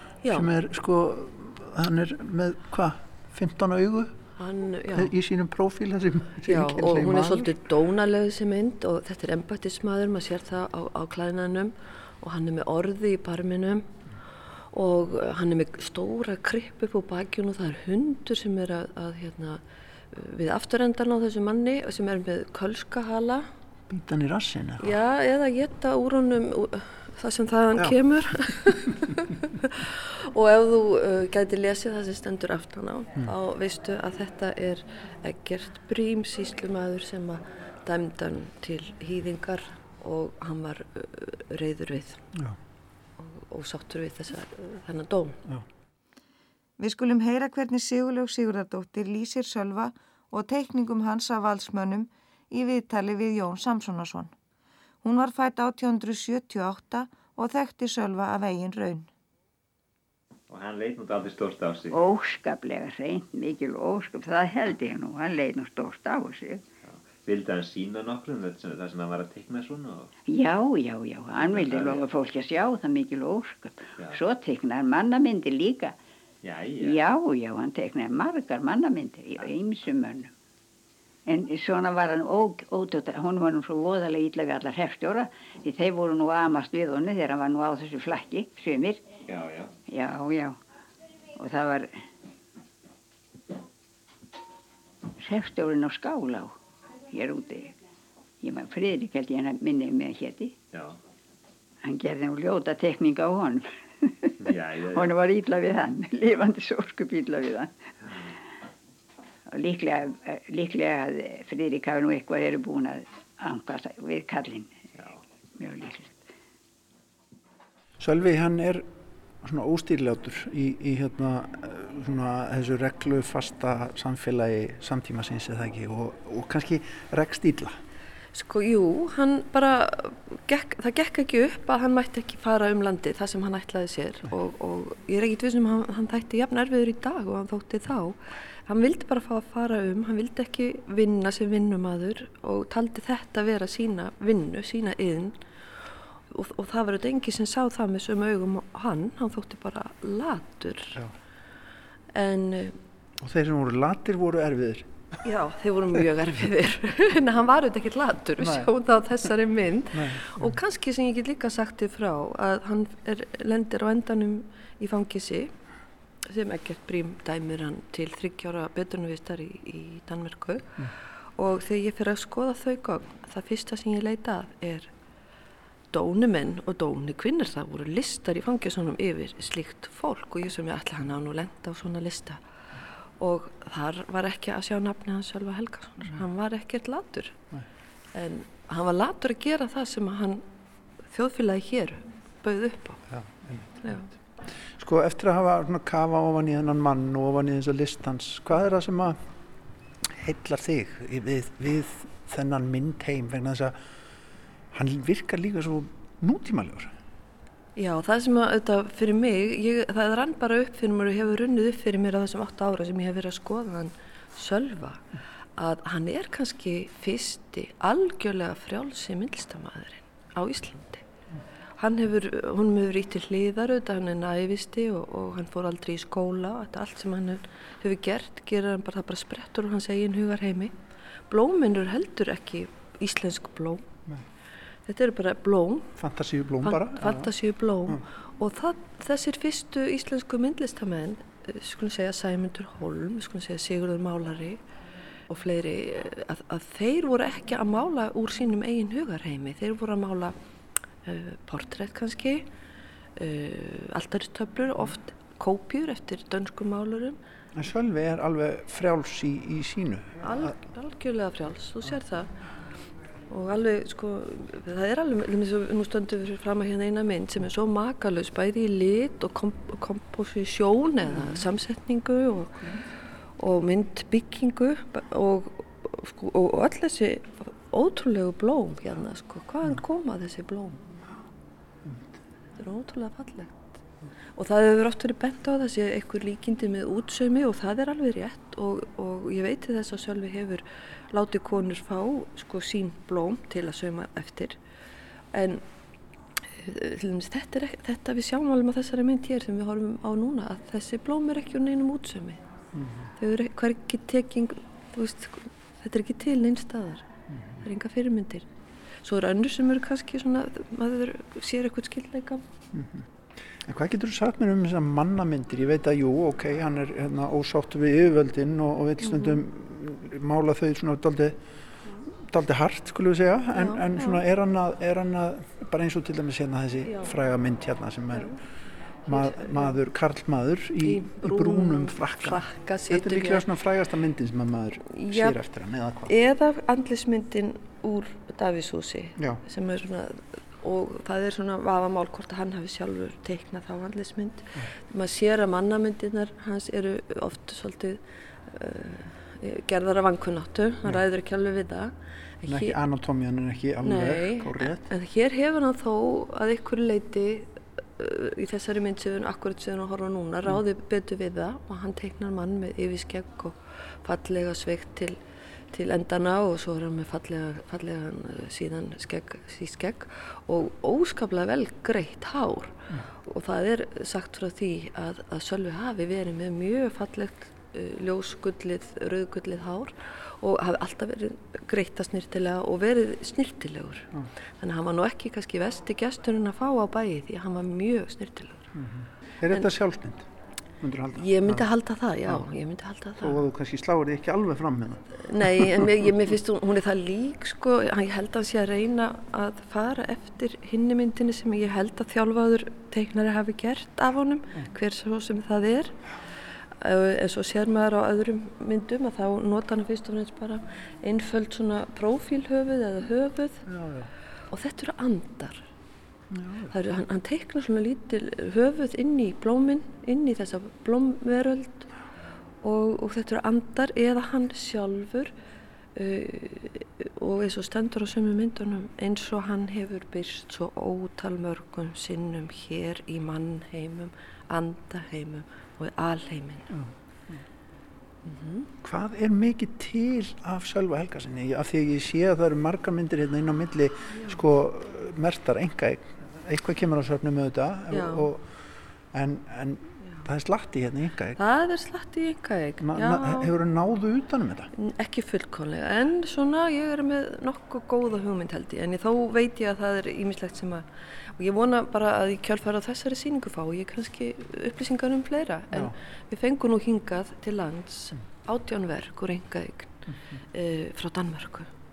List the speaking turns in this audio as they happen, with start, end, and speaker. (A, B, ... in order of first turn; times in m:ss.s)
0:00.2-0:00.5 A
0:00.3-0:04.2 B
0:04.4-0:05.1 A
0:04.9-0:07.5 B
0:06.4-0:13.9 A
0:14.7-0:23.5 A
0:23.9-0:25.0 B
0:24.8-0:42.2 A
0:43.2-0:45.4 A
0:46.8-0:54.3 C
0:55.0-0:59.1 C
1:00.5-1:02.0 D
1:01.9-1:06.6 E
1:06.8-1:10.1 D
1:10.3-1:16.0 E
1:11.4-1:12.0 D
1:16.4-1:17.0 D
1:16.8-1:20.3 E
1:21.3-1:29.1 E
1:29.3-1:29.7 D
1:29.9-1:30.6 E
1:31.4-1:32.0 E
1:35.2-1:36.5 E
1:37.1-1:37.7 E
1:38.4-1:40.6 E
1:40.7-1:41.0 D
1:41.8-1:47.7 E
1:44.4-1:45.1 D
1:49.5-1:54.8 E
1:55.6-1:56.2 E
1:58.0-1:58.8 B
1:59.4-2:07.8 B
2:08.3-2:31.0 A
2:32.1-2:32.8 A
2:33.2-2:34.9 B
2:35.2-2:45.5 A
2:38.4-2:38.7 B
2:39.9-2:40.6 B
2:46.3-2:54.9 A
2:55.9-3:02.4 A
3:03.2-3:07.4 A
3:08.1-3:10.4 A
3:11.0-3:13.0 A
3:13.1-3:14.0 B
3:14.6-3:19.2 B
3:20.0-3:23.8 B
3:24.7-3:26.9 B
3:27.8-3:35.0 A
3:35.6-3:41.0 A
3:41.8-3:50.7 A
3:51.3-3:53.9 A
3:54.9-3:55.9 A
3:56.0-3:57.3 B
3:56.6-4:04.6 A
4:05.3-4:10.4 A
4:11.0-4:12.5 A
4:13.2-4:17.2 A
4:17.5-4:20.5 B
4:20.2-4:22.3 A
4:23.3-4:32.6 A
4:31.1-4:31.4 B
4:33.4-4:40.8 A
4:42.6-4:43.8 A
4:44.3-4:54.6 A
4:55.3-4:55.6 A
4:56.5-5:02.4 A
5:02.7-5:03.1 B
5:03.2-5:07.1 A
5:07.3-5:07.6 B
5:07.6-5:08.5 A
5:09.0-5:12.4 A
5:12.7-5:21.4 B
5:19.0-5:19.4 A
5:22.1-5:28.4 B
5:23.5-5:24.2 A
5:26.9-5:27.1 A
5:29.0-5:36.1 B
5:29.1-5:29.8 A
5:30.8-5:33.5 A
5:34.9-5:35.4 A
5:36.0-5:52.8 A
5:52.4-5:54.9 B
5:53.8-6:05.2 A
6:05.7-6:28.7 A
6:28.7-6:30.3 B
6:30.8-6:31.7 B
6:31.2-6:33.5 A
6:33.2-6:36.1 B
6:35.2-6:45.9 A
6:46.7-6:53.6 A
6:53.6-6:54.1 B
6:54.5-6:55.6 A
6:56.3-6:56.7 B
6:56.7-7:01.9 A
7:02.6-7:05.3 A
7:05.9-7:16.7 A
7:16.7-7:17.4 B
7:18.2-7:18.7 A
7:18.8-7:28.5 B
7:24.1-7:24.4 A
7:27.9-7:28.3 A
7:29.1-7:31.4 B
7:31.4-7:33.5 A
7:32.8-7:34.7 B
7:34.7-7:51.7 A
7:50.1-7:50.4 B